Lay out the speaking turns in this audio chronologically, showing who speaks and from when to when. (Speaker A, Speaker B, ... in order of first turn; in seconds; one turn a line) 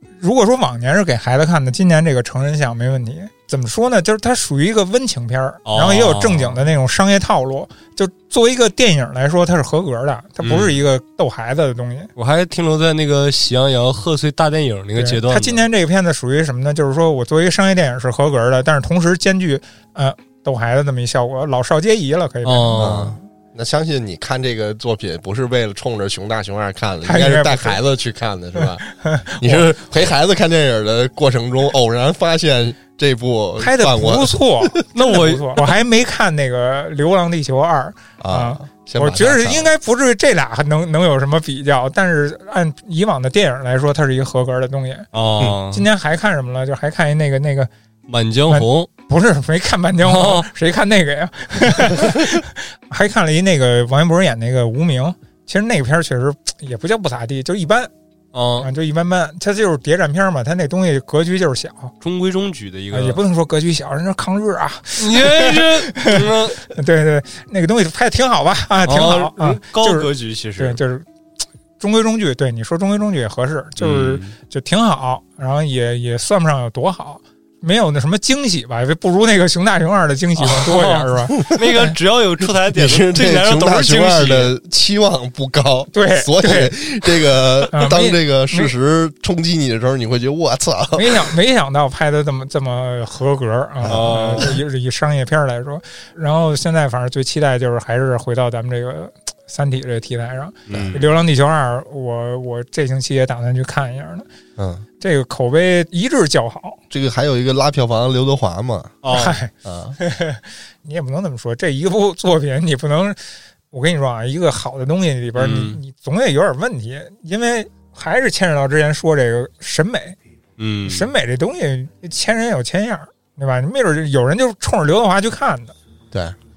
Speaker A: 0.2-12.1
Speaker B: 5.7-6.6
Speaker B: 10.4-10.9
Speaker B: 12.2-15.7
Speaker A: 15.0-23.1
Speaker B: 22.4-23.1
Speaker C: 22.8-28.8
Speaker A: 27.0-27.8
Speaker A: 28.6-29.7
Speaker C: 29.4-34.8
Speaker A: 33.6-45.1
Speaker B: 35.0-35.7
Speaker C: 38.2-39.7
Speaker B: 45.1-45.9
Speaker A: 45.7-47.7
Speaker B: 48.1-48.9
Speaker A: 48.5-57.9
Speaker B: 50.0-50.5
Speaker B: 58.3-58.7
Speaker A: 58.6-61.9
Speaker B: 62.0-63.2
Speaker A: 62.9-71.1
Speaker B: 65.0-66.6
Speaker B: 68.8-70.8
Speaker A: 71.8-81.9
Speaker B: 73.8-74.3
Speaker B: 80.4-84.5
Speaker C: 82.6-91.3
Speaker A: 85.9-86.8
Speaker A: 87.7-88.7
Speaker A: 91.0-104.3
Speaker C: 93.8-94.5
Speaker B: 93.9-94.6
Speaker B: 100.7-101.0
Speaker C: 100.7-101.0
Speaker C: 104.6-104.9
Speaker A: 105.0-106.8
Speaker C: 106.9-109.1
Speaker B: 109.0-109.4
Speaker A: 109.1-113.2
Speaker C: 109.6-110.0
Speaker A: 113.7-120.2
Speaker B: 115.4-115.8
Speaker B: 120.6-121.1
Speaker A: 120.9-125.8